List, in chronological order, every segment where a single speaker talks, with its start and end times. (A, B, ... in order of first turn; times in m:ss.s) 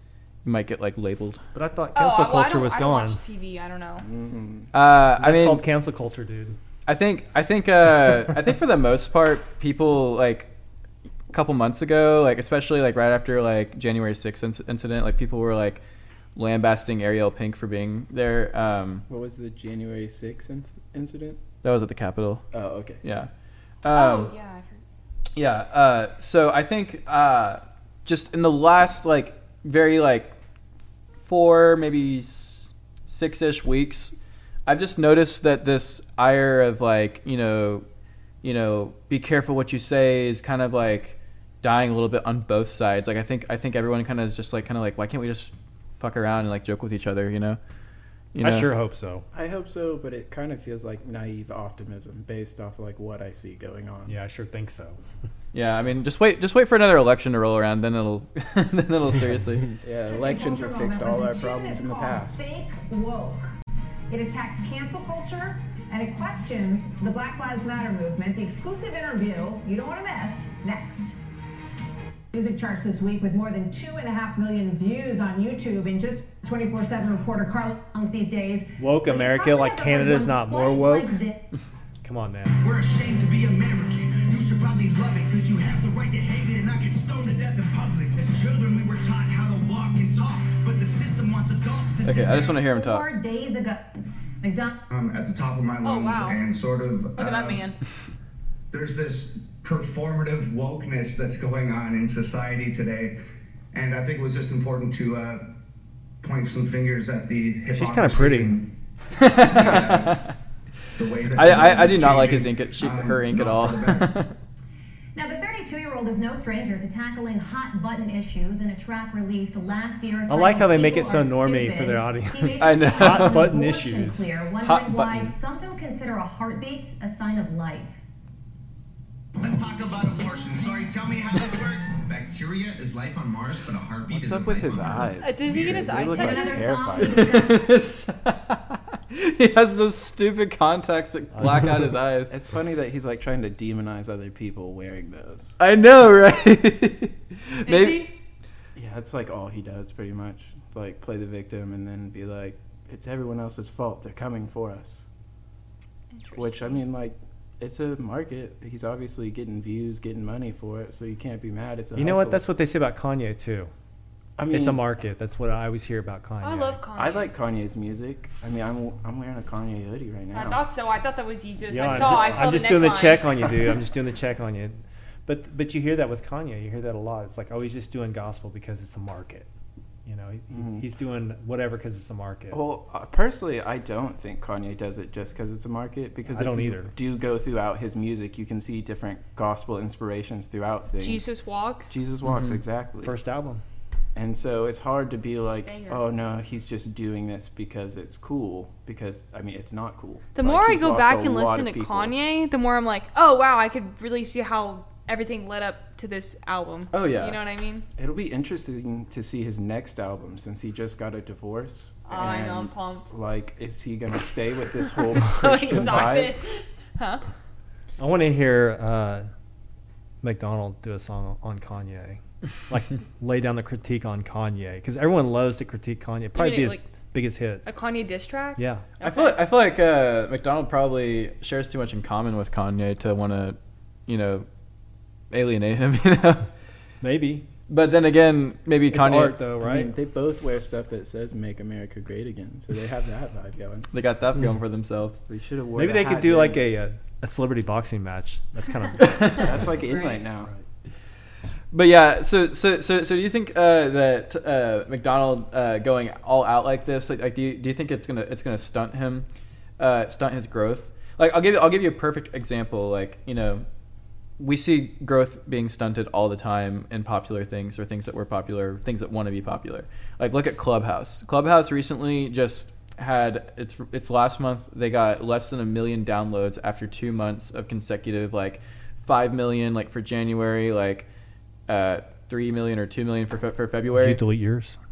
0:00.4-0:01.4 A
0:01.5-0:03.2 B
0:01.9-0:04.0 C
0:04.0-0:04.7 D
0:04.7-0:05.6 A
0:05.2-0:06.6 B
0:06.8-0:10.5 A
0:11.3-0:15.8 A
0:16.4-0:19.0 A
0:19.1-0:21.4 D
0:21.6-0:22.4 A
0:22.5-0:23.0 D
0:23.0-0:23.3 A
0:23.8-0:24.3 A
0:23.9-0:24.8 C
0:25.4-0:30.3 A
0:31.2-0:34.1 A
0:34.6-0:37.8 A
0:38.4-0:47.6 A
0:48.3-0:48.7 A
0:48.4-0:49.2 B
0:49.3-0:54.1 D
0:54.1-0:55.0 B
0:55.5-0:59.7 A
0:59.8-1:02.4 D
1:00.0-1:03.5 E
1:04.1-1:11.2 E
1:12.3-1:21.4 E
1:18.8-1:21.2 B
1:22.0-1:22.5 B
1:22.6-1:32.5 F
1:32.0-1:33.1 A
1:32.6-1:33.9 E
1:34.4-1:34.7 E
1:34.9-1:37.6 G
1:35.8-1:36.4 C
1:37.2-1:37.8 C
1:38.7-1:43.2 G
1:43.7-1:45.5 G
1:46.2-1:48.7 G
1:47.7-1:48.5 B
1:49.2-1:50.3 A
1:49.4-1:50.3 G
1:51.0-1:54.1 G
1:51.3-1:54.3 A
1:55.1-2:08.0 E
2:00.3-2:04.3 B
2:02.6-2:03.5 A
2:04.6-2:05.3 A
2:09.4-2:12.0 F
2:11.9-2:15.2 G
2:14.1-2:17.4 D
2:15.2-2:17.4 C
2:16.0-2:17.7 E
2:17.3-2:22.3 A
2:21.3-2:21.7 B
2:22.3-2:25.6 D
2:25.6-2:28.1 A
2:27.6-2:28.1 C
2:28.7-2:35.1 D
2:36.2-2:36.7 C
2:36.3-2:42.4 D
2:42.0-2:43.7 B
2:44.4-2:44.9 D
2:44.5-2:46.8 B
2:46.4-2:47.3 C
2:47.0-2:50.6 D
2:50.3-2:53.3 C
2:51.7-2:59.5 B
2:51.8-2:52.5 D
3:00.0-3:02.6 B
3:00.5-3:00.8 D
3:02.5-3:11.3 D
3:06.3-3:06.9 B
3:11.0-3:11.9 C
3:11.9-3:13.2 D
3:12.2-3:12.6 A
3:13.0-3:13.6 B
3:14.1-3:22.1 D
3:15.6-3:16.0 C
3:20.3-3:27.8 C
3:26.9-3:27.4 A
3:28.0-3:36.4 D
3:32.0-3:33.1 C
3:35.2-3:37.2 C
3:38.0-3:39.3 B
3:40.2-3:47.6 B
3:46.3-3:46.9 C
3:47.6-3:49.4 C
3:48.6-3:48.8 B
3:49.0-3:54.5 A
3:55.3-3:56.5 A
3:57.0-3:57.4 B
3:57.7-3:59.4 A
3:58.9-3:59.9 B
3:59.6-4:03.9 D
4:03.9-4:05.2 A
4:05.3-4:06.6 D
4:05.8-4:09.5 B
4:09.0-4:09.3 A
4:09.4-4:10.5 D
4:09.8-4:10.3 C
4:11.7-4:19.2 A
4:19.8-4:23.6 A
4:24.4-4:41.0 A
4:41.7-4:44.2 A
4:44.0-4:44.8 B